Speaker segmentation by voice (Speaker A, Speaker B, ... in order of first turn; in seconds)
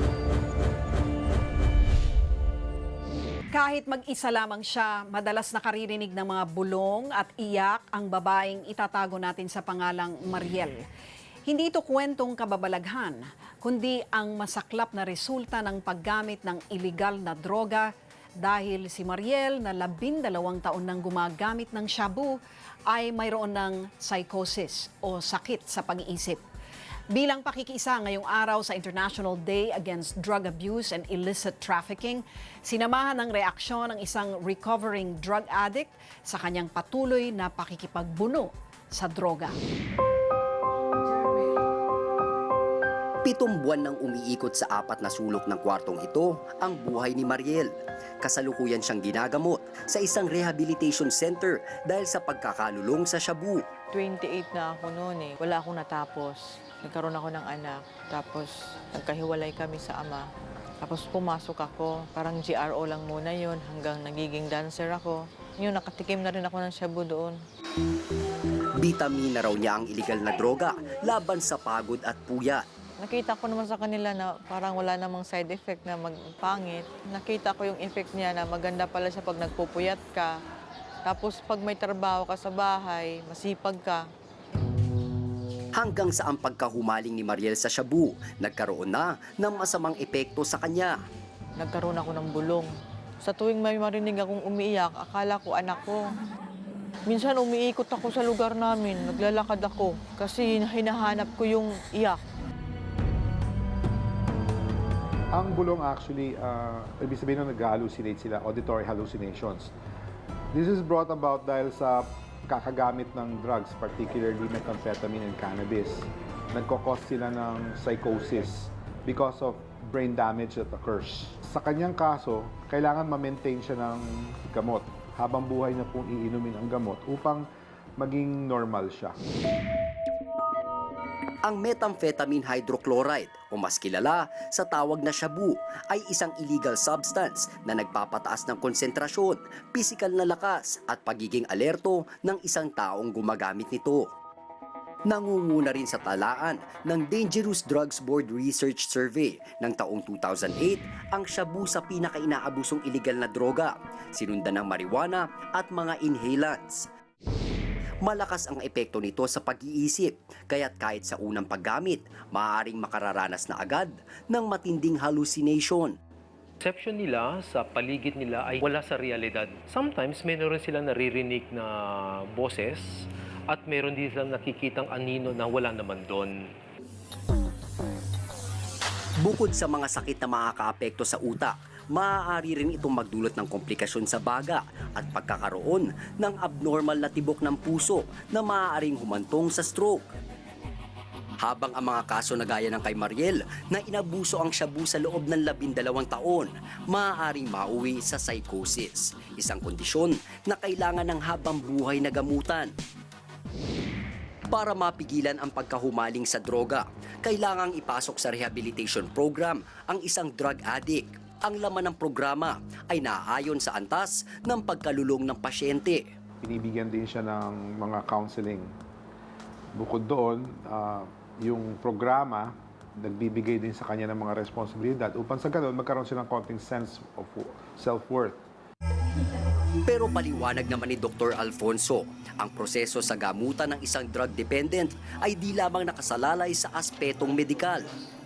Speaker A: 3.5-10.8, 11.5-17.9, 18.4-22.4, 22.9-26.4, 27.1-39.6
Speaker B: 43.2-53.6, 68.8-72.6, 85.7-91.0, 131.4-144.1, 145.1-156.9, 158.0-165.9, 179.2-190.1, 191.4-202.7, 204.5-216.1, 229.8-237.8
Speaker C: 53.9-60.3, 60.8-67.4, 73.0-80.3, 81.0-84.1, 91.6-92.7, 93.2-96.1, 97.1-102.2
Speaker D: 105.3-109.7, 110.5-127.5, 128.0-129.2, 216.4-218.7, 219.8-228.4
Speaker E: 166.6-176.5